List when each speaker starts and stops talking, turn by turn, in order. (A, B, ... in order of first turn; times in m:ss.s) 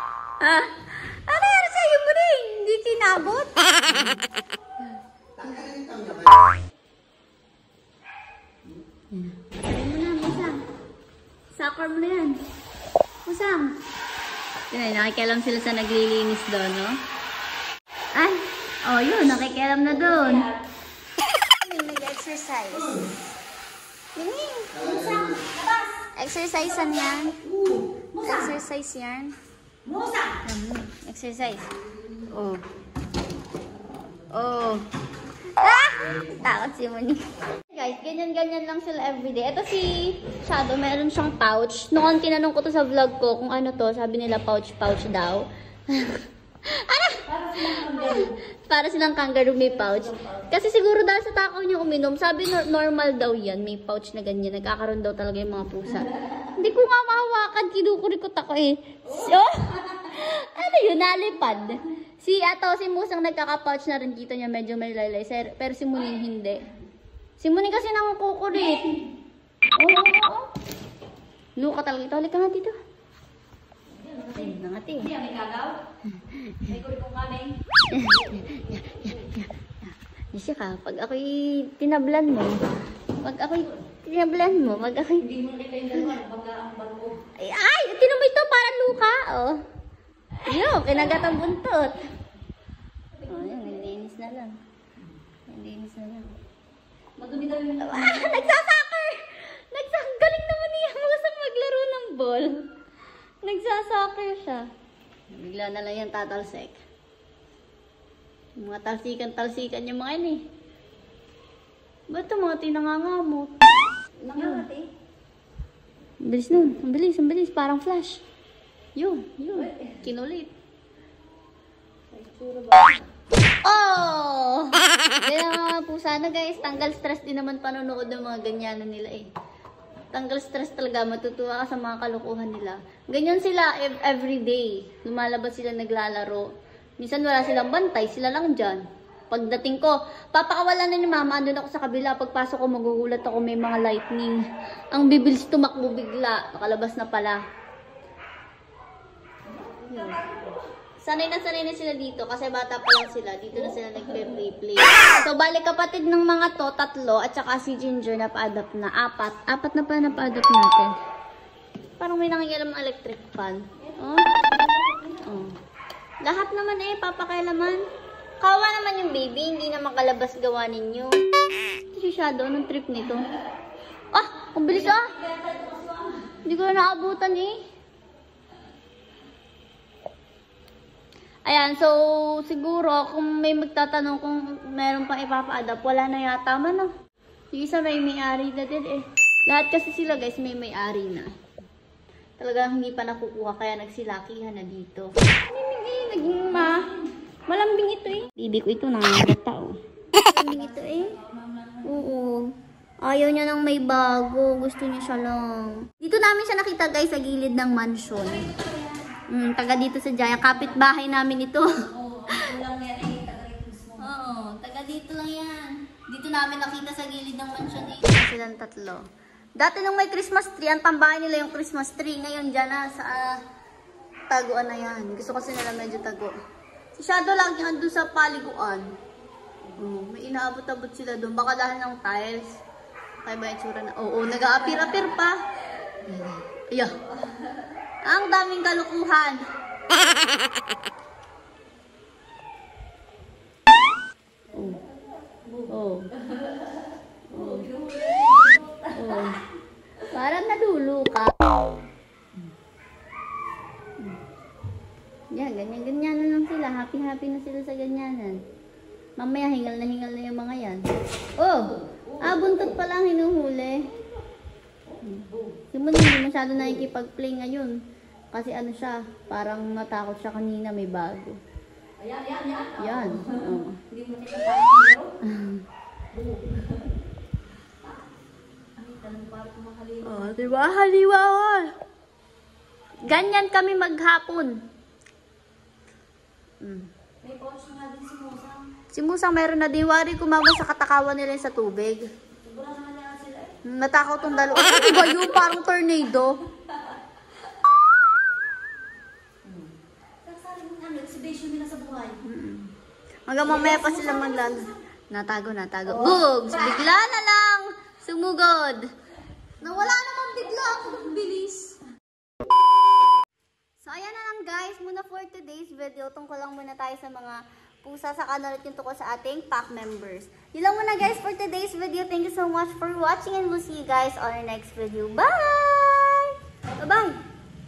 0:00.4-0:04.1 A
0:09.2-0:10.6 A
0:11.6-0:12.4 A
0:13.3-0:13.8 A
0:14.7-0:17.0 A
0:18.2-0:20.5 A
0:19.9-0:20.6 B
0:21.6-0:23.0 A
0:24.2-0:25.4 A
0:25.1-0:26.0 B
0:26.2-0:27.4 A
0:26.6-0:28.5 B
0:28.2-0:29.3 A
0:29.8-0:30.4 B
0:30.4-0:31.7 A
0:32.3-0:32.6 A
0:34.3-0:34.8 A
0:35.6-1:06.6 A
0:47.3-0:48.3 B
1:07.4-1:09.0 A
1:08.6-1:08.8 B
1:09.8-1:10.5 A
1:11.6-1:12.8 A
1:14.0-1:15.8 B
1:14.4-1:15.1 A
1:16.2-1:16.7 A
1:16.7-1:17.5 B
1:17.9-1:22.6 A
1:23.2-1:25.2 A
1:25.2-1:27.2 B
1:27.4-1:29.6 A
1:30.5-1:32.0 A
1:33.2-1:33.7 B
1:33.3-1:34.6 A
1:35.5-1:36.4 A
1:37.2-1:38.5 B
1:37.8-1:42.6 A
1:43.4-1:44.7 A
1:45.3-1:46.8 A
1:48.6-1:50.4 A
1:52.1-1:53.5 A
1:54.2-1:54.9 B
1:54.4-1:54.6 A
1:56.2-1:58.2 A
1:59.0-2:00.5 A
1:59.6-2:00.0 B
2:02.1-2:03.0 B
2:03.6-2:09.3 A
2:10.1-2:16.5 A
2:17.0-2:24.4 A
2:24.9-2:27.4 A
2:29.7-2:30.4 B
2:29.9-2:30.2 A
2:31.0-2:40.9 A
2:42.0-2:44.3 A
2:43.8-2:45.2 B
2:45.2-2:45.5 A
2:46.2-2:47.8 A
2:48.4-2:51.2 A
2:51.9-2:53.3 A
2:54.1-2:55.1 A
2:54.7-2:56.4 B
2:56.4-2:57.6 A
3:01.5-3:06.9 A
3:07.5-3:11.3 A
3:12.4-3:16.9 A
3:17.5-3:21.2 A
3:20.2-3:22.1 B
3:21.8-3:22.5 A
3:23.0-3:28.5 A
3:28.2-3:29.1 B
3:29.3-3:31.7 A
3:31.8-3:34.1 B
3:34.0-3:39.0 A
3:39.6-3:43.4 A
3:44.3-3:46.3 A
3:47.0-3:48.9 A
3:49.8-3:52.6 A
3:53.2-3:55.4 A
3:56.1-3:56.9 A
3:58.0-3:59.4 A
4:05.4-4:05.7 B
4:05.7-4:06.1 A
4:07.3-4:07.7 A
4:07.3-4:09.3 B
4:08.9-4:09.4 A
4:10.1-4:11.4 A
4:15.3-4:18.4 A
4:19.2-4:20.8 A
4:21.4-4:23.8 A
4:22.0-4:22.6 B
4:25.0-4:27.8 A
4:28.3-4:31.4 A
4:32.0-4:35.1 B
4:32.8-4:33.8 A
4:35.2-4:35.6 A
4:36.1-4:36.9 B
4:38.8-4:40.5 B
4:40.0-4:41.7 A
4:43.0-4:44.6 A
4:46.6-4:46.9 A
4:47.2-4:48.6 B
4:48.9-4:52.1 A
4:52.4-4:53.6 B
4:53.6-4:56.4 A
4:54.4-4:55.5 B
5:00.2-5:02.2 B
5:02.2-5:02.7 A
5:03.3-5:08.9 A
5:03.4-5:04.7 B
5:05.9-5:06.9 B
5:09.6-5:11.8 A
5:13.8-5:27.2 A